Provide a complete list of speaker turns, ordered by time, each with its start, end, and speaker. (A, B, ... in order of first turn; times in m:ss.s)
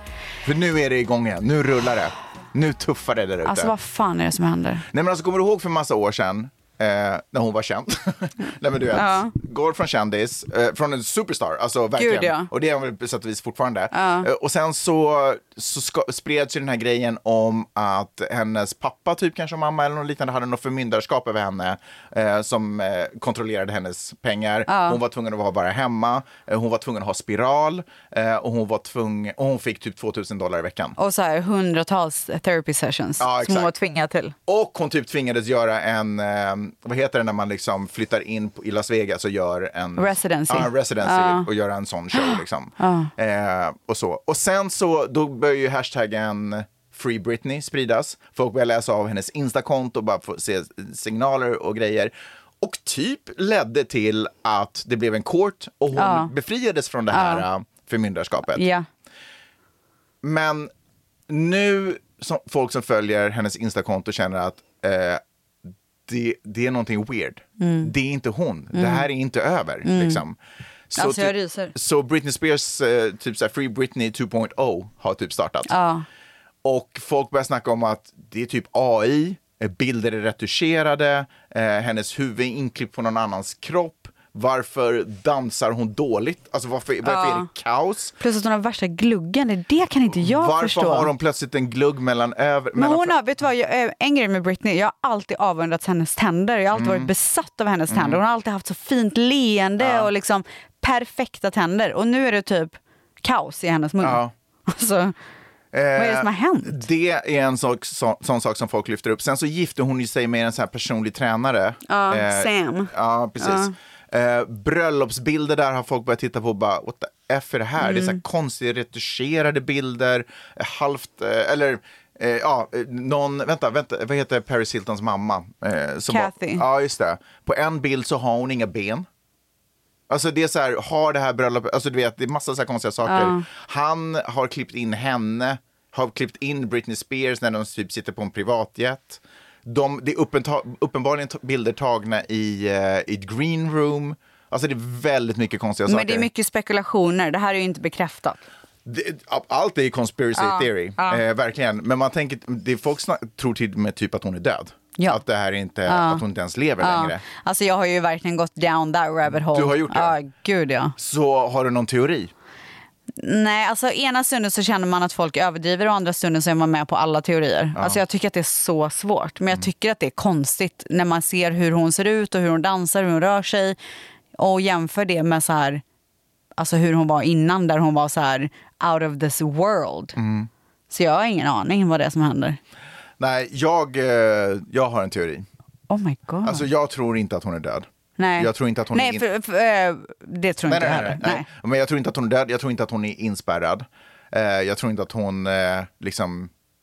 0:00.4-0:03.7 A
0:03.4-0:04.8 B
0:04.9-0:31.0 A
0:08.9-0:09.3 B
0:12.0-0:12.5 B
0:13.9-0:14.3 B
0:24.7-0:25.0 B
0:31.0-0:34.4 B
0:33.2-0:33.7 A
0:34.5-0:58.6 A
0:40.0-0:41.5 B
0:42.2-0:43.1 B
0:55.9-0:56.3 B
0:57.1-0:57.4 B
0:58.5-0:58.9 B
1:00.2-1:00.7 A
1:01.3-1:05.2 A
1:06.1-1:10.4 A
1:07.6-1:07.9 B
1:08.7-1:09.1 B
1:09.8-1:10.2 B
1:10.9-1:15.7 A
1:11.0-1:11.7 B
1:15.7-1:16.1 B
1:16.6-1:28.1 A
1:27.0-1:27.5 B
1:28.2-1:31.1 B
1:30.2-1:33.2 A
1:32.8-1:45.1 B
1:36.7-1:37.1 A
1:37.9-1:38.2 A
1:39.8-1:40.1 A
1:44.0-1:44.3 A
1:45.7-2:09.1 A
1:46.0-1:46.8 B
1:51.9-1:53.7 B
1:57.8-1:58.2 B
2:06.1-2:06.6 B
2:10.1-2:26.3 A
2:13.1-2:13.4 B
2:25.9-2:28.4 B
2:28.8-2:37.2 A
2:30.4-2:31.2 B
2:35.9-2:36.2 B
2:36.8-2:40.9 B
2:39.3-2:40.2 A
2:41.0-2:42.3 A
2:43.2-2:53.8 B
2:54.4-2:55.8 B
2:56.6-3:00.2 B
3:00.2-3:00.5 A
3:00.9-3:02.6 B
3:03.2-3:05.4 A
3:05.9-3:06.6 B
3:06.4-3:09.2 A
3:08.2-3:11.4 B
3:10.7-3:16.5 A